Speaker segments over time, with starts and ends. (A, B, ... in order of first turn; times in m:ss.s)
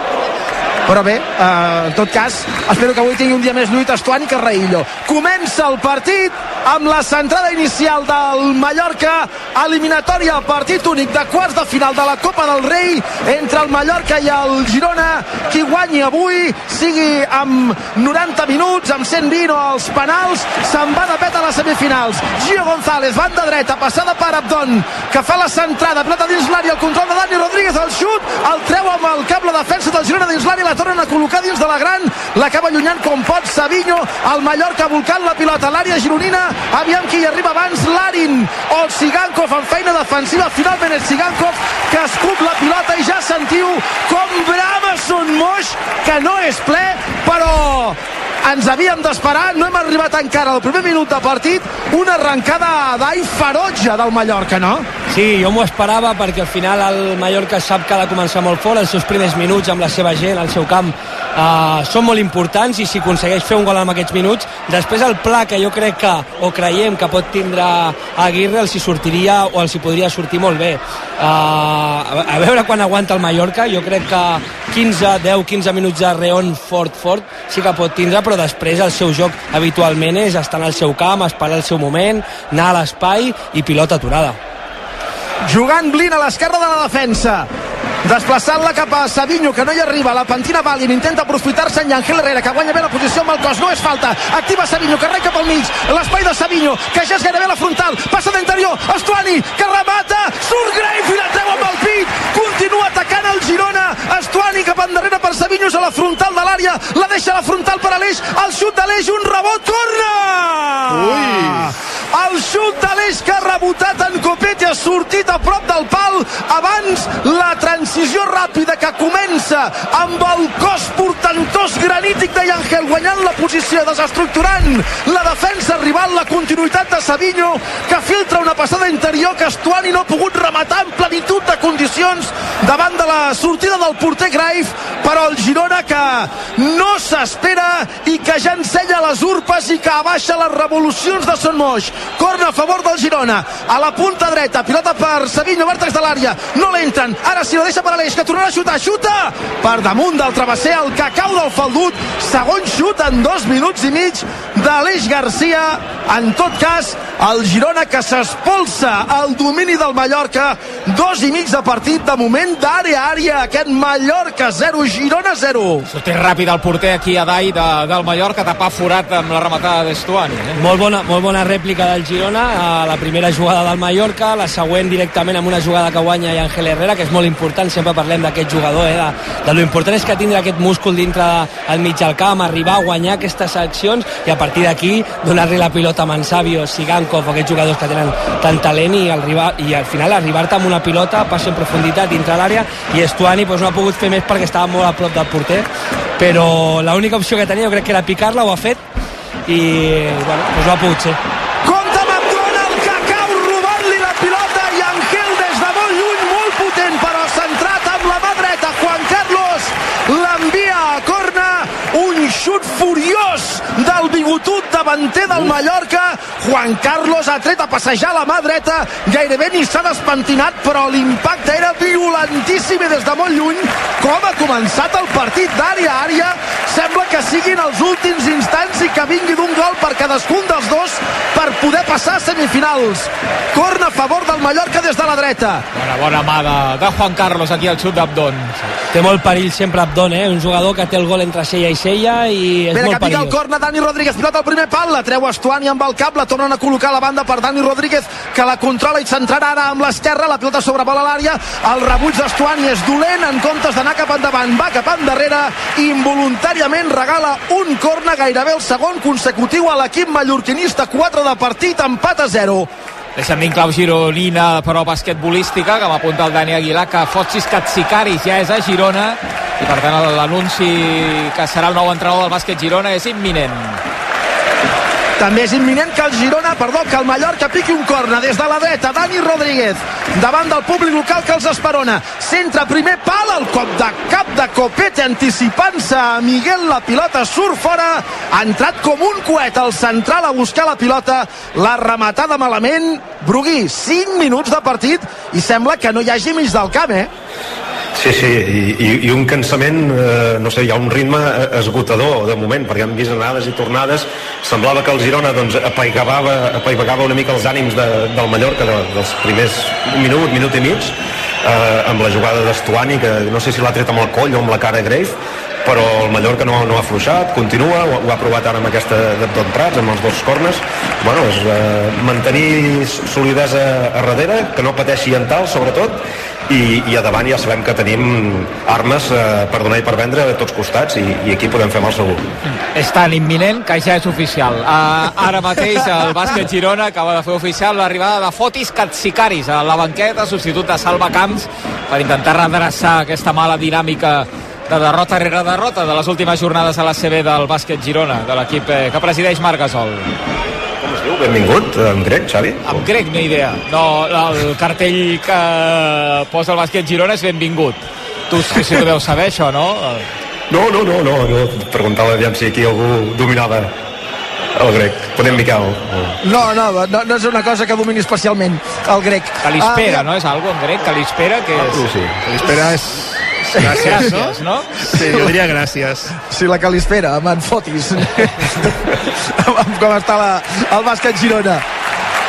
0:00.8-0:54.9 A
0:55.1-1:24.4 B
1:25.4-1:27.5 A
1:28.0-2:45.9 A
1:50.9-1:51.7 C
2:45.9-2:50.6 D
2:50.6-3:15.7 B
3:16.2-3:18.8 B
3:19.5-3:21.2 B
3:21.6-3:55.6 A
3:55.7-3:58.6 D
3:58.9-4:03.3 B
4:02.7-4:22.7 A
4:23.2-4:33.8 D
4:35.2-4:57.1 A
4:58.0-5:32.2 E
5:32.7-5:50.1 D
5:50.8-5:52.9 E
5:52.6-6:00.1 D
6:00.5-6:03.7 E
6:04.6-6:06.2 E
6:06.2-6:10.0 A
6:09.4-6:11.9 D
6:11.6-6:16.1 C
6:11.8-6:12.2 E
6:13.6-6:14.0 A
6:13.7-6:14.8 D
6:16.3-6:21.6 A